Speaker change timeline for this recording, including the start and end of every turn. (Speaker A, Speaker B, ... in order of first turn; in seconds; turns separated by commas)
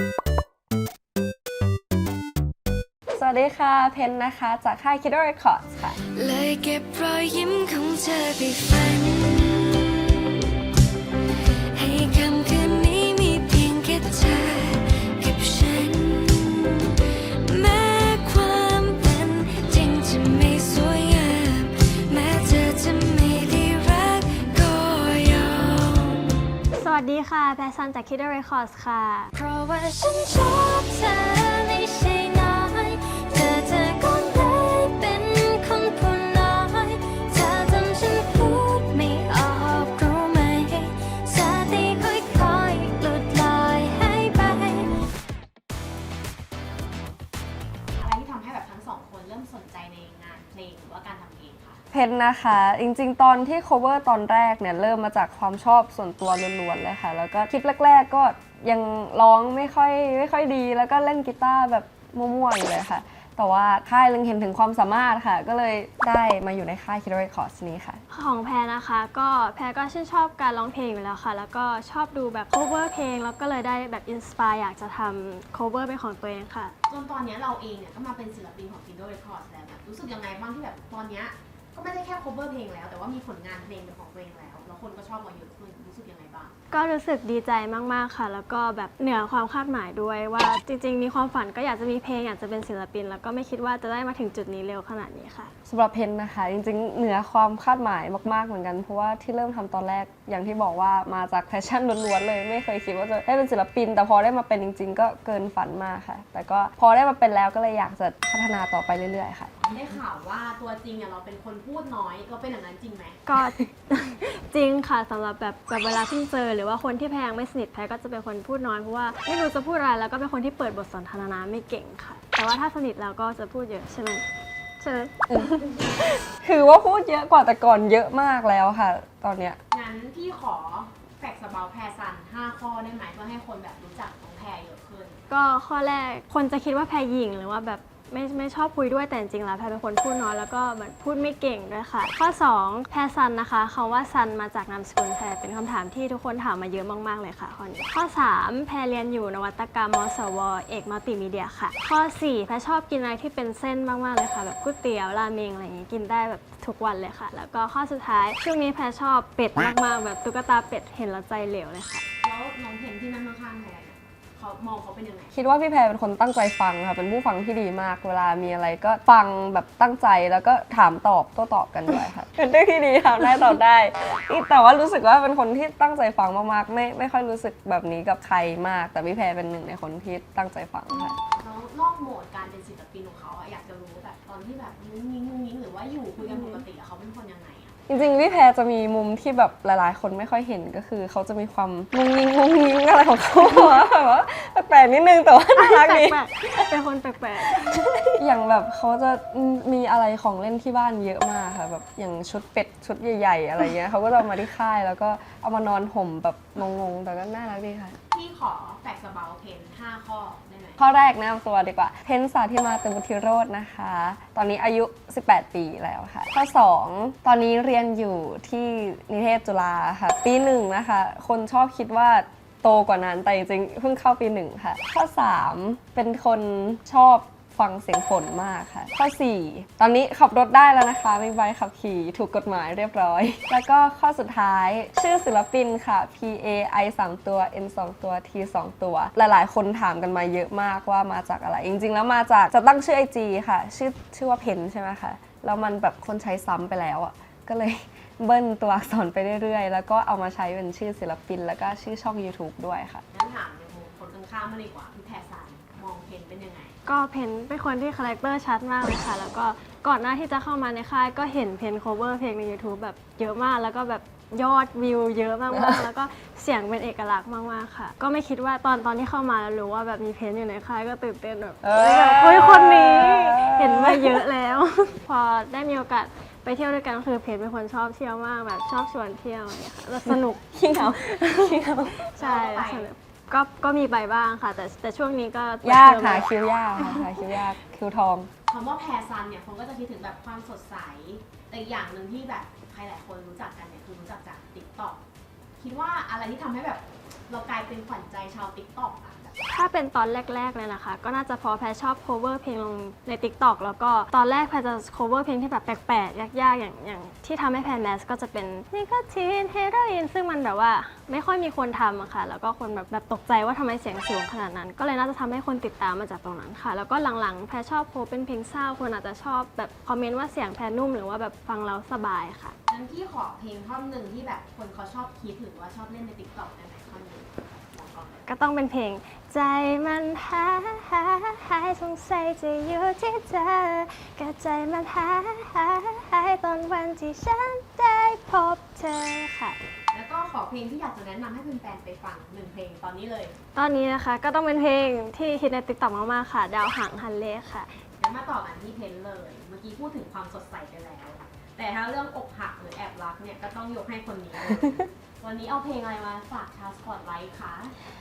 Speaker A: 3.1-6.0, Speaker B: 6.1-10.5, Speaker B: 11.7-26.4, Speaker C: 26.7-29.3, Speaker B: 29.4-44.9, Speaker D: 48.0-51.8, Speaker A: 51.9-68.0, Speaker C: 68.1-76.7, Speaker D: 76.9-86.5, Speaker C: 86.7-95.5, Speaker A: 95.7-109.5, Speaker D: 109.7-113.2, Speaker C: 113.2-124.2, Speaker C: 124.8-125.6, Speaker A: 125.3-125.6, Speaker A: 126.4-129.6, Speaker D: 129.7-135.2, Speaker C: 135.3-162.0, Speaker D: 162.2-165.3, Speaker A: 165.3-181.2, Speaker D: 181.4-187.8, Speaker C: 186.3-186.6, Speaker A: 187.9-196.2, Speaker C: 195.5-197.8, Speaker A: 197.4-207.9, Speaker D: 208.1-210.8, Speaker A: 210.8-253.0, Speaker D: 253.1-256.7, Speaker C: 256.9-287.2, Speaker A: 265.5-265.9, Speaker A: 271.6-274.2, Speaker A: 280.0-282.1, Speaker D: 282.2-282.9, Speaker A: 285.6-288.3, Speaker D: 288.5-295.0, Speaker D: 295.6-299.4, Speaker C: 299.5-322.5, Speaker D: 322.7-328.3, Speaker C: 328.2-339.6, Speaker D: 339.9-343.3, Speaker C: 343.5-347.7, Speaker D: 348.0-357.7